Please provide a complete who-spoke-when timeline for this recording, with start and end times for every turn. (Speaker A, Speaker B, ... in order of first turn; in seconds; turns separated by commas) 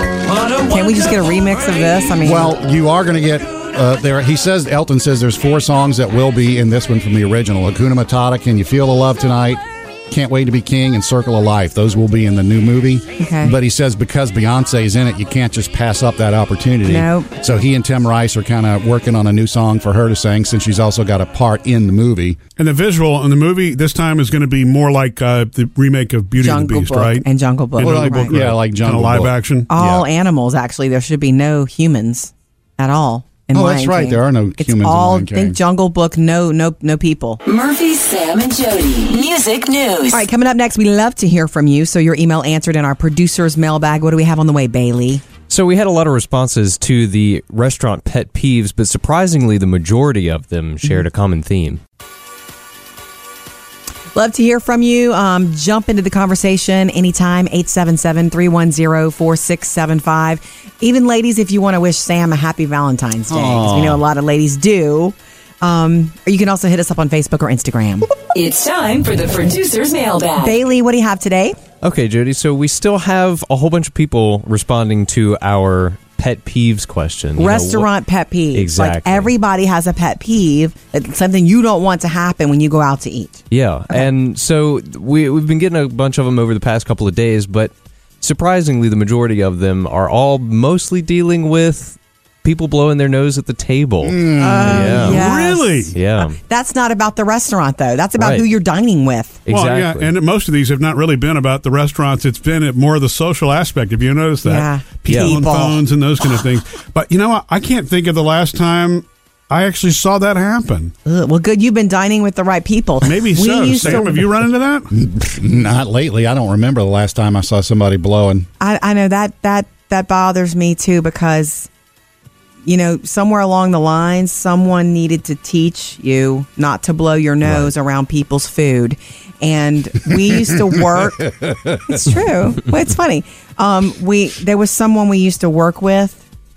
Speaker A: 0.6-2.6, Speaker B: 2.2-22.4, Speaker A: 13.2-13.6, Speaker A: 16.9-17.3, Speaker C: 22.6-27.2, Speaker A: 26.4-28.4, Speaker C: 27.8-29.7, Speaker B: 27.8-30.1, Speaker A: 29.7-37.4, Speaker B: 33.5-35.6, Speaker D: 37.4-40.2, Speaker A: 40.1-45.2, Speaker E: 45.5-51.8, Speaker A: 54.1-68.1, Speaker B: 63.3-64.0, Speaker D: 68.3-70.5, Speaker A: 70.4-71.6, Speaker E: 71.8-77.9, Speaker A: 77.4-84.0, Speaker E: 78.5-79.3, Speaker E: 83.5-95.2, Speaker B: 94.0-95.2, Speaker A: 94.4-99.4, Speaker C: 95.0-95.9, Speaker E: 95.9-96.4, Speaker E: 98.2-98.5, Speaker E: 99.5-100.1, Speaker C: 99.5-110.9, Speaker A: 104.4-105.8, Speaker E: 105.1-105.4, Speaker A: 111.0-114.2, Speaker C: 113.0-114.9, Speaker B: 114.9-118.5, Speaker A: 118.6-121.7, Speaker A: 122.6-131.3, Speaker B: 130.2-132.1, Speaker A: 131.8-136.2